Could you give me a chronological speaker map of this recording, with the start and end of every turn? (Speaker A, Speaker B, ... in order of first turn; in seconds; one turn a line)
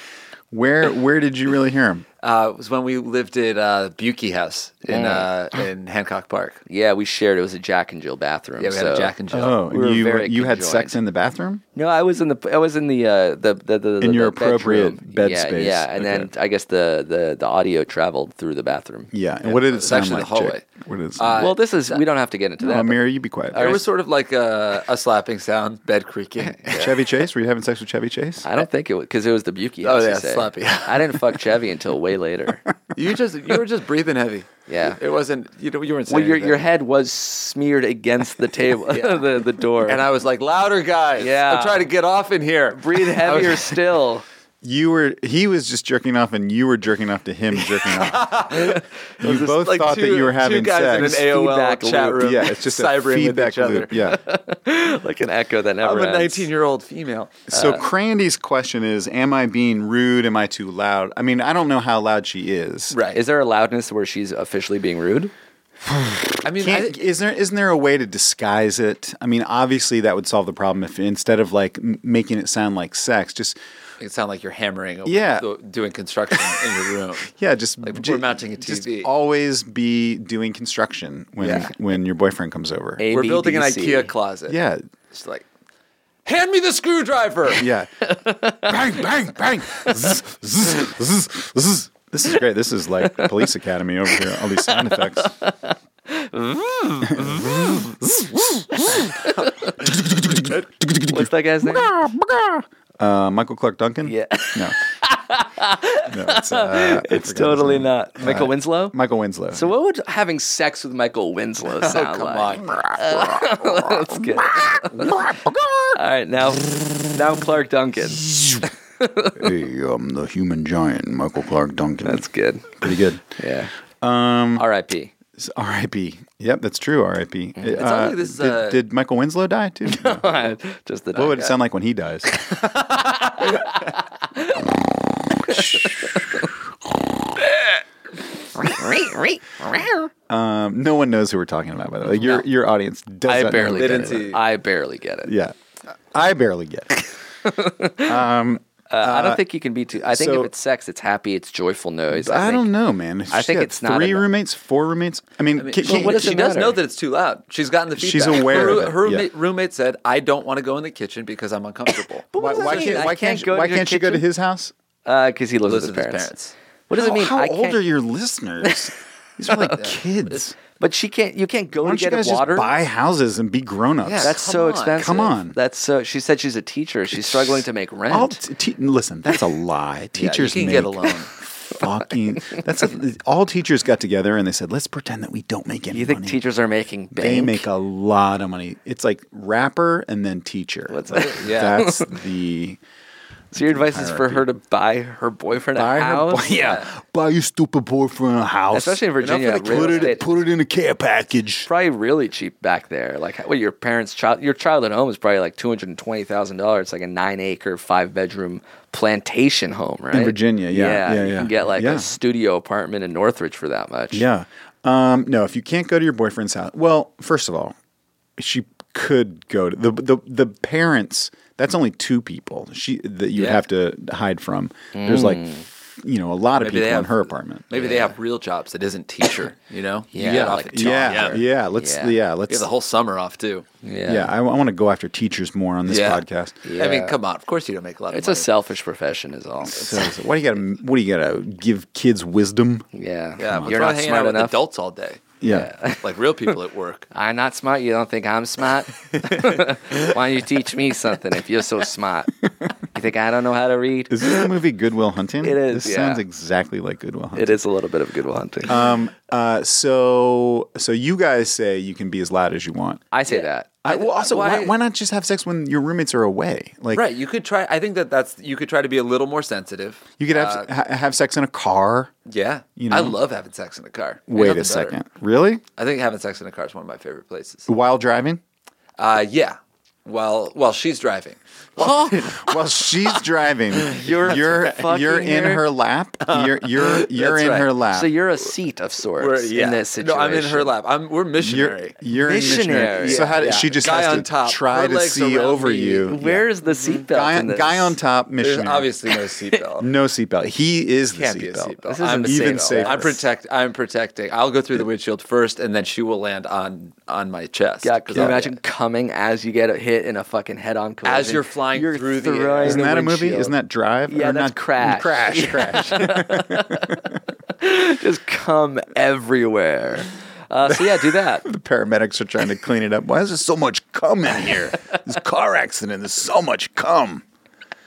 Speaker A: 0.5-2.0
Speaker B: 2.2-6.6
Speaker C: 4.9-5.3
Speaker C: 6.7-9.1
Speaker B: 8.6-9.6
Speaker A: 9.3-11.6
Speaker C: 9.7-11.0
Speaker C: 11.8-19.1
Speaker A: 14.0-16.3
Speaker A: 19.1-21.5
Speaker B: 19.5-20.6
Speaker B: 21.2-22.0
Speaker C: 21.4-23.0
Speaker A: 22.6-23.8
Speaker C: 23.5-23.8
Speaker B: 23.6-27.0
Speaker C: 26.6-26.9
Speaker A: 26.7-28.5
Speaker C: 28.4-32.6
Speaker B: 29.8-31.4
Speaker B: 33.0-36.7
Speaker C: 34.7-35.0
Speaker C: 36.1-40.0
Speaker B: 38.9-43.8
Speaker C: 41.2-41.9
Speaker C: 42.7-44.2
Speaker A: 44.6-48.5
Speaker B: 47.5-53.9
Speaker A: 49.2-51.3
Speaker C: 51.0-52.3
Speaker A: 52.2-54.2
Speaker C: 54.0-56.5
Speaker B: 55.8-57.6
Speaker A: 57.5-63.0
Speaker C: 57.5-57.9
Speaker B: 62.9-63.2
Speaker C: 63.1-65.3
Speaker A: 65.8-73.6
Speaker B: 66.4-67.0
Speaker B: 74.0-79.1
Speaker A: 75.0-75.5
Speaker A: 76.3-76.6
Speaker A: 77.3-83.0
Speaker B: 81.4-81.7
Speaker C: 83.0-84.1
Speaker B: 83.1-84.6
Speaker A: 84.5-84.8
Speaker B: 85.1-85.5
Speaker B: 86.3-87.7
Speaker A: 87.6-87.9
Speaker C: 88.2-88.7
Speaker A: 88.4-95.3
Speaker C: 94.6-98.0
Speaker A: 97.0-99.2
Speaker C: 98.7-99.7
Speaker A: 99.8-104.8
Speaker C: 101.1-102.0
Speaker C: 104.0-109.0
Speaker A: 106.1-109.7
Speaker C: 109.5-115.2
Speaker B: 111.8-113.3
Speaker A: 112.7-116.0
Speaker C: 116.0-118.3
Speaker A: 118.1-118.7
Speaker C: 119.0-119.5
Speaker A: 119.3-123.2
Speaker C: 122.0-123.7
Speaker A: 124.0-124.7
Speaker C: 124.6-125.1
Speaker A: 125.4-130.3
Speaker B: 127.7-128.8
Speaker C: 129.9-131.5
Speaker A: 131.2-132.3
Speaker C: 132.5-134.7
Speaker C: 135.4-136.5
Speaker A: 135.5-135.8
Speaker C: 138.7-139.4
Speaker A: 140.3-144.4
Speaker C: 142.2-142.5
Speaker C: 143.3-145.3
Speaker B: 143.7-144.4
Speaker A: 145.2-147.1
Speaker C: 147.5-148.2
Speaker A: 148.0-150.5
Speaker C: 148.9-152.7
Speaker A: 152.1-156.5
Speaker C: 153.3-154.3
Speaker B: 155.6-162.3
Speaker C: 155.8-156.8
Speaker A: 158.0-159.3
Speaker C: 161.9-164.3
Speaker A: 162.4-164.7
Speaker C: 165.1-166.3
Speaker B: 165.7-166.5
Speaker C: 166.9-167.8
Speaker A: 166.9-170.6
Speaker C: 169.5-169.8
Speaker B: 169.8-170.4
Speaker C: 170.8-172.8
Speaker A: 171.8-174.4
Speaker B: 174.0-175.2
Speaker C: 174.2-178.4
Speaker A: 174.9-175.6
Speaker A: 177.2-186.4
Speaker B: 180.2-181.3
Speaker C: 185.9-187.7
Speaker A: 187.1-192.8
Speaker C: 190.9-192.1
Speaker B: 191.2-191.8
Speaker A: 193.5-194.5
Speaker C: 193.5-196.7
Speaker A: 195.7-199.1
Speaker B: 196.5-196.9
Speaker C: 198.7-200.2
Speaker B: 199.2-200.4
Speaker A: 199.6-201.7
Speaker C: 201.7-214.2
Speaker A: 210.1-212.1
Speaker A: 214.1-217.8
Speaker A: 218.4-227.7
Speaker C: 224.9-225.7
Speaker B: 226.6-231.4
Speaker C: 227.7-228.1
Speaker C: 230.1-232.2
Speaker A: 230.2-232.7
Speaker B: 232.5-233.7
Speaker C: 233.8-234.3
Speaker A: 234.1-236.6
Speaker B: 235.9-236.2
Speaker C: 236.7-237.2
Speaker B: 236.8-238.5
Speaker C: 238.1-240.1
Speaker A: 239.6-242.9
Speaker C: 242.9-244.6
Speaker B: 243.4-245.4
Speaker A: 243.4-243.7
Speaker A: 245.4-245.7
Speaker C: 245.5-246.0
Speaker B: 246.0-247.1
Speaker C: 247.1-252.3
Speaker C: 252.9-254.4
Speaker A: 254.1-257.6
Speaker C: 255.4-256.2
Speaker C: 257.4-258.7
Speaker A: 258.7-263.0
Speaker C: 263.1-263.8
Speaker B: 263.3-264.7
Speaker A: 263.8-267.1
Speaker B: 266.9-270.7
Speaker A: 270.2-272.1
Speaker B: 272.3-275.0
Speaker A: 272.8-273.2
Speaker A: 274.3-275.6
Speaker B: 275.8-277.7
Speaker A: 277.7-278.4
Speaker B: 279.0-282.6
Speaker C: 281.8-282.1
Speaker A: 281.8-288.1
Speaker C: 283.9-285.6
Speaker B: 284.0-284.6
Speaker B: 286.2-287.7
Speaker C: 287.9-290.7
Speaker B: 289.2-292.0
Speaker A: 291.4-296.5
Speaker C: 292.1-293.5
Speaker B: 292.7-297.0
Speaker C: 296.1-298.0
Speaker A: 297.1-299.0
Speaker B: 298.4-299.9
Speaker A: 299.8-303.2
Speaker B: 301.1-308.6
Speaker C: 301.9-303.1
Speaker C: 307.8-313.5
Speaker B: 311.0-312.9
Speaker A: 312.6-317.1
Speaker C: 314.1-317.0
Speaker C: 317.6-321.4
Speaker A: 320.6-327.2